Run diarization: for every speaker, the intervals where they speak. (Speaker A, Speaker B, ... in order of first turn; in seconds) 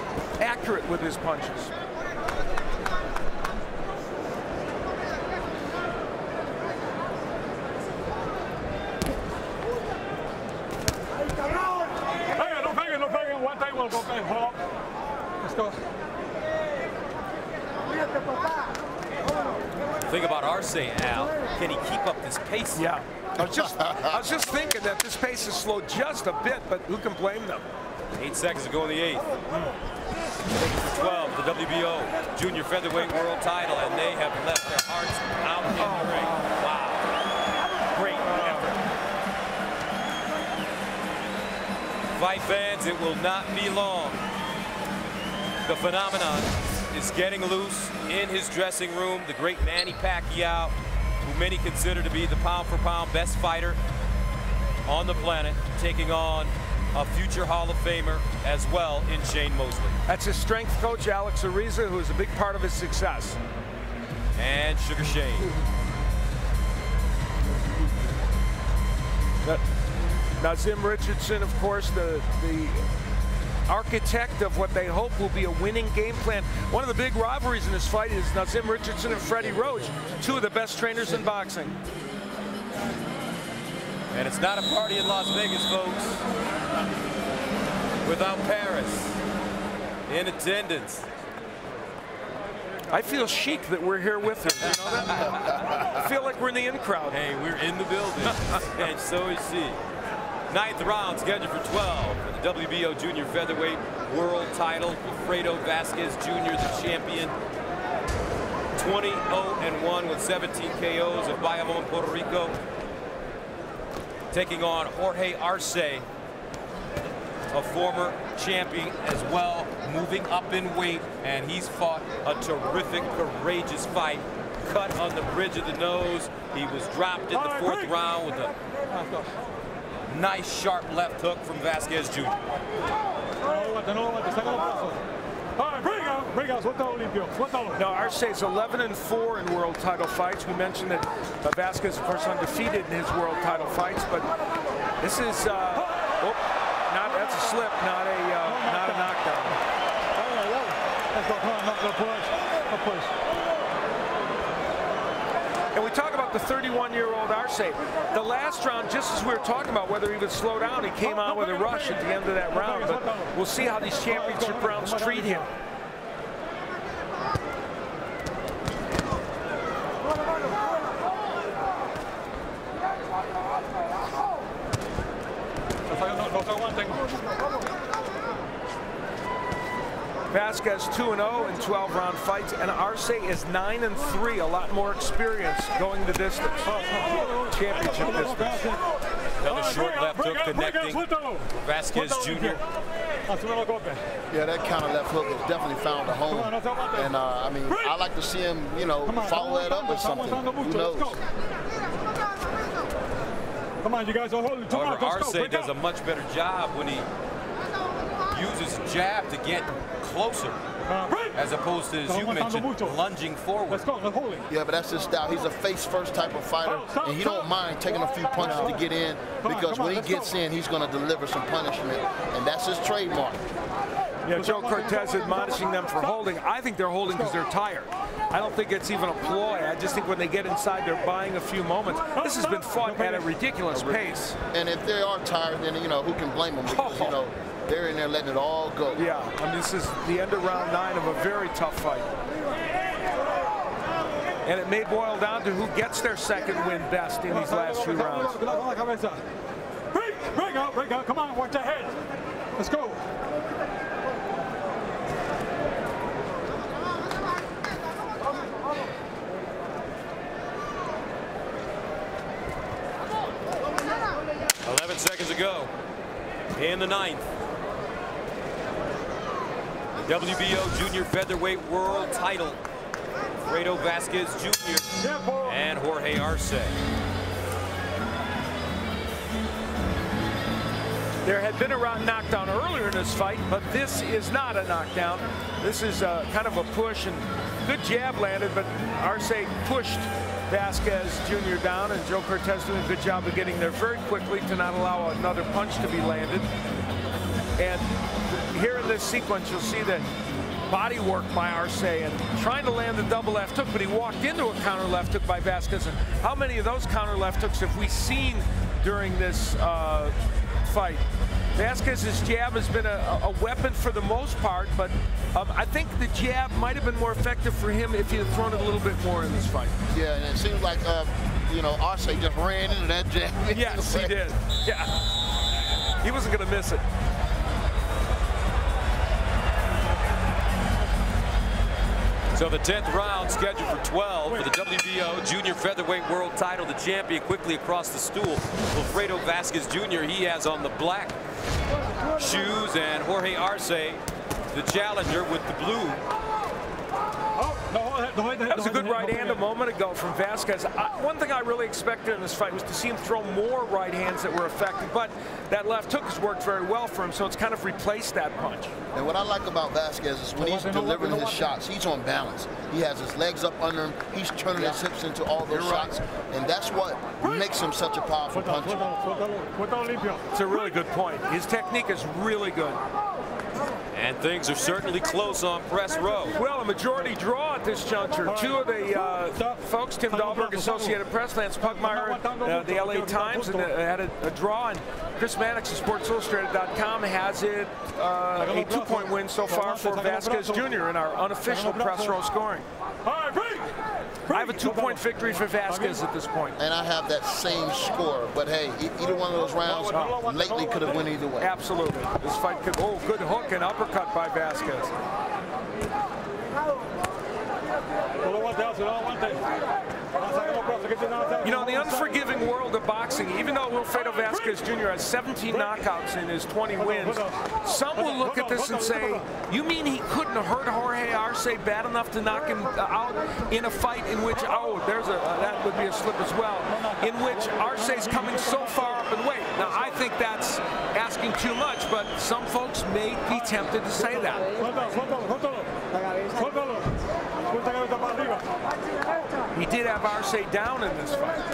Speaker A: 0.4-1.7, 22.8-27.7, 29.5-29.7, 60.1-63.4, 70.4-72.8, 73.7-81.8, 92.9-97.2, 137.8-144.3, 145.0-149.6, 155.7-165.5, 180.3-186.7, 187.5-188.6, 218.4-218.7, 224.3-234.4, 236.7-237.2, 239.0-242.1, 244.4-248.4, 281.2-296.5, 297.6-300.1, 300.7-311.0, 311.6-319.8, 323.5-325.0, 326.0-326.8, 348.5-358.7, 365.5-366.0, 370.3-372.8, 376.4-392.7, 394.3-396.6, 399.9-400.2, 401.4-404.9, 411.4-434.6, 439.5-441.4
Speaker B: 12.3-14.6, 15.4-15.8, 127.3-128.0, 128.9-129.3, 133.4-135.0, 135.6-137.8, 147.1-147.6, 148.4-149.1, 150.2-153.1, 161.1-165.5, 175.9-177.2, 186.7-188.9, 189.4-192.6, 193.3-194.0, 196.3-197.1, 197.7-198.0, 199.1-201.2, 203.8-205.7, 210.9-211.4, 212.1-213.0, 213.7-214.5, 216.6-218.8, 219.4-220.3, 224.3-226.3, 227.1-227.3, 232.2-233.3, 247.3-249.2, 249.9-252.0, 252.6-253.0, 275.0-275.6, 347.4-349.4, 360.4-361.5, 368.3-370.2, 378.2-381.0, 381.6-383.7, 388.4-390.7, 391.4-392.2, 393.1-393.7, 394.2-396.0, 399.4-401.1, 408.2-409.6, 410.1-412.2, 414.0-414.6, 415.5-415.8, 416.8-419.3, 426.7-429.1, 429.7-430.0, 434.5-438.6
Speaker C: 20.0-22.9, 28.2-29.3, 30.5-37.1, 37.9-38.7, 42.1-44.2, 45.7-53.8, 54.9-60.0, 64.4-65.5, 84.1-86.2, 88.0-89.2, 90.1-91.1, 94.7-95.4, 97.1-99.8, 100.5-107.3, 108.8-112.6, 114.3-116.1, 117.5-128.5, 130.1-132.4, 189.4-192.6, 204.7-207.1, 208.3-210.6, 211.3-213.9, 264.6-265.7, 266.6-267.3, 270.0-272.6, 273.4-276.8, 332.3-341.1, 342.2-344.0, 344.5-346.0, 373.9-376.4
Speaker D: 23.4-24.3, 194.3-201.2, 214.5-223.4, 233.7-239.0, 319.9-324.3, 358.9-368.9, 396.6-401.5